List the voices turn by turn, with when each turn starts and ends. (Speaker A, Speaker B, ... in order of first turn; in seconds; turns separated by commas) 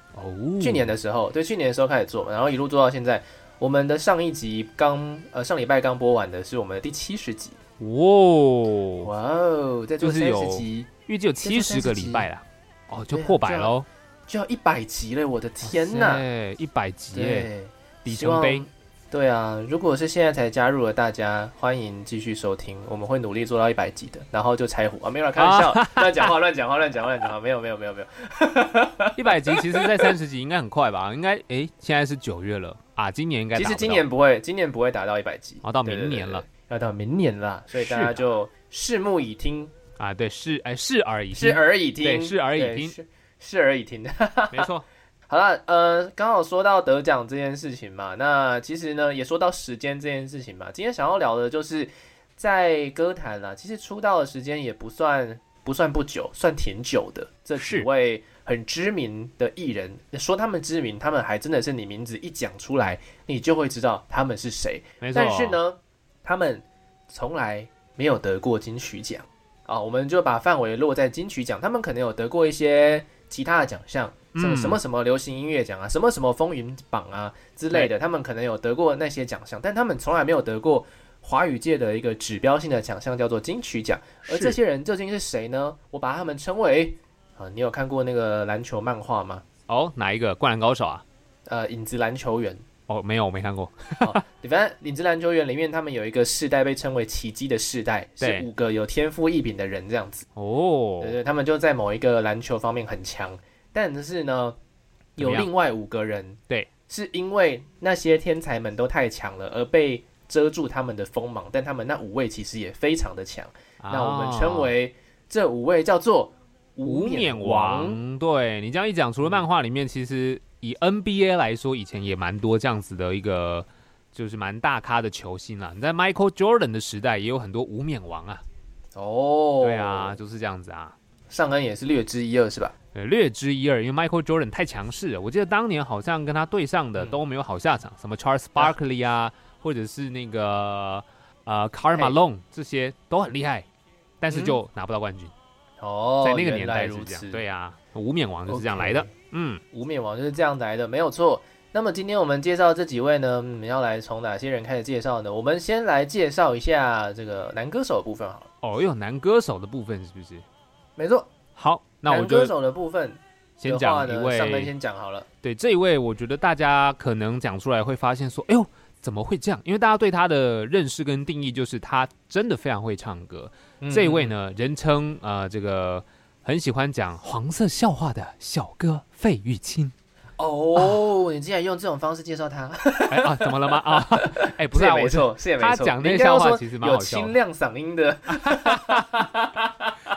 Speaker A: 0.1-0.9, Speaker B: 0.6-7.6, Speaker A: 7.8-9.1, Speaker B: 9.0-10.9, Speaker A: 10.0-13.9, Speaker B: 11.4-12.3, Speaker B: 13.1-13.7, Speaker B: 14.3-16.2, Speaker A: 15.6-17.5, Speaker B: 17.1-30.1, Speaker A: 18.0-18.7, Speaker A: 25.4-26.3, Speaker A: 29.2-34.0, Speaker B: 33.5-39.7, Speaker A: 35.6-36.5, Speaker A: 37.7-38.2, Speaker A: 40.0-43.0, Speaker B: 41.3-44.7, Speaker A: 44.5-44.9, Speaker B: 45.3-89.4, Speaker A: 57.6-57.9, Speaker A: 65.0-65.6, Speaker A: 74.3-74.8, Speaker A: 84.3-84.6, Speaker A: 89.7-91.0, Speaker B: 91.5-92.6, Speaker A: 92.9-94.2, Speaker B: 94.0-100.3, Speaker A: 98.2-98.5, Speaker A: 100.4-101.2, Speaker B: 101.0-104.6, Speaker A: 105.2-105.5, Speaker B: 105.2-118.0, Speaker A: 113.8-114.7, Speaker A: 116.8-128.4, Speaker B: 129.0-130.2, Speaker A: 129.6-131.0, Speaker B: 131.3-132.8, Speaker A: 132.9-143.7, Speaker A: 144.2-145.3, Speaker B: 144.3-144.6, Speaker B: 145.8-147.4, Speaker A: 146.2-149.6, Speaker B: 148.5-149.1, Speaker B: 149.7-158.5, Speaker A: 158.6-160.5, Speaker B: 161.0-161.3, Speaker A: 161.6-162.6, Speaker B: 162.1-165.3, Speaker A: 163.6-164.7, Speaker A: 165.4-179.9, Speaker B: 173.8-174.3, Speaker B: 180.4-190.0, Speaker A: 183.1-187.3, Speaker A: 188.3-189.3